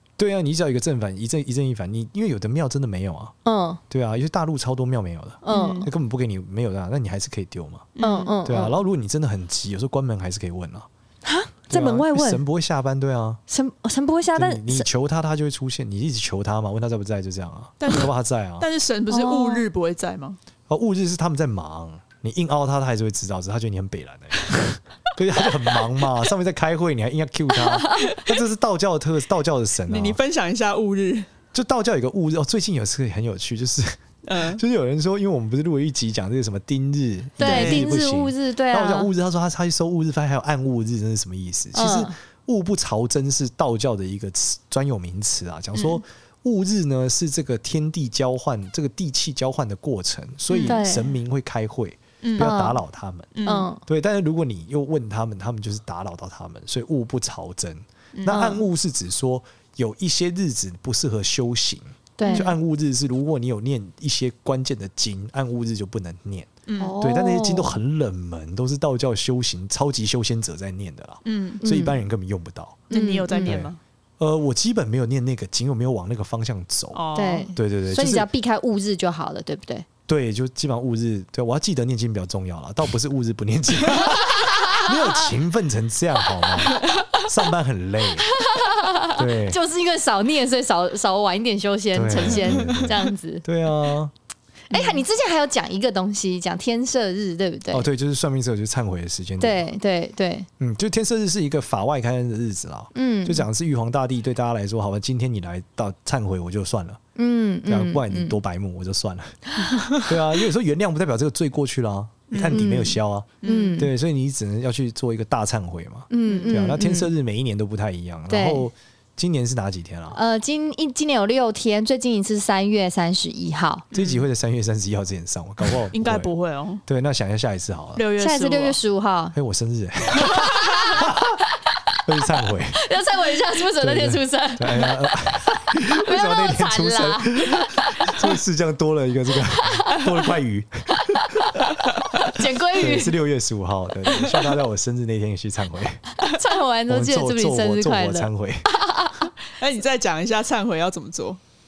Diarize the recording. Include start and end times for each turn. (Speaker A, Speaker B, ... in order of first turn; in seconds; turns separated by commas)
Speaker A: 0.2-3.3, Speaker B: 3.5-3.8, Speaker A: 3.9-10.9, Speaker B: 5.4-5.9, Speaker C: 5.5-5.9, Speaker C: 8.0-8.4, Speaker B: 8.0-8.8, Speaker B: 11.2-12.4, Speaker A: 11.7-13.4, Speaker B: 13.5-14.9, Speaker A: 14.3-18.7, Speaker C: 17.8-20.4, Speaker B: 19.1-19.6, Speaker A: 20.7-30.2, Speaker C: 27.9-28.3, Speaker C: 29.9-31.3, Speaker A: 31.5-77.0, Speaker C: 34.2-34.6, Speaker C: 37.4-37.9, Speaker B: 37.4-39.1, Speaker B: 41.7-42.1, Speaker C: 50.5-50.8, Speaker B: 50.6-51.1, Speaker C: 52.2-52.7, Speaker B: 52.4-52.8, Speaker C: 53.3-53.7, Speaker B: 53.5-53.8, Speaker C: 58.1-58.5, Speaker B: 58.3-58.6, Speaker B: 62.2-62.6, Speaker C: 62.2-62.5, Speaker C: 66.7-66.9, Speaker B: 66.8-67.8, Speaker C: 71.2-71.6, Speaker B: 71.6-72.0, Speaker C: 72.9-73.8, Speaker B: 72.9-73.6, Speaker C: 76.9-77.5, Speaker B: 77.2-79.9, Speaker A: 77.5-78.3, Speaker A: 80.1-88.3, Speaker B: 84.5-84.9, Speaker B: 88.3-93.5, Speaker A: 89.2-89.6, Speaker A: 91.9-94.1, Speaker B: 94.7-97.9, Speaker A: 97.7-99.7, Speaker B: 99.4-100.5, Speaker A: 100.6-107.0, Speaker B: 103.0-103.5, Speaker B: 107.2-108.4, Speaker A: 107.7-109.4, Speaker C: 109.6-110.1, Speaker A: 110.0-120.2, Speaker C: 112.3-112.6, Speaker B: 112.5-113.9, Speaker C: 113.4-113.8, Speaker B: 116.1-117.1, Speaker C: 116.2-116.7, Speaker B: 118.3-118.7, Speaker B: 120.1-123.9, Speaker C: 123.9-124.2, Speaker A: 123.9-126.3, Speaker C: 125.9-126.8, Speaker A: 126.9-128.0, Speaker C: 128.0-128.8, Speaker B: 128.2-129.3, Speaker A: 129.3-131.4, Speaker B: 130.3-131.2, Speaker A: 132.1-132.8, Speaker B: 132.7-138.3, Speaker A: 133.8-141.8, Speaker B: 142.3-143.2, Speaker A: 142.8-146.2, Speaker B: 146.2-149.3, Speaker A: 146.9-148.7, Speaker C: 149.5-151.4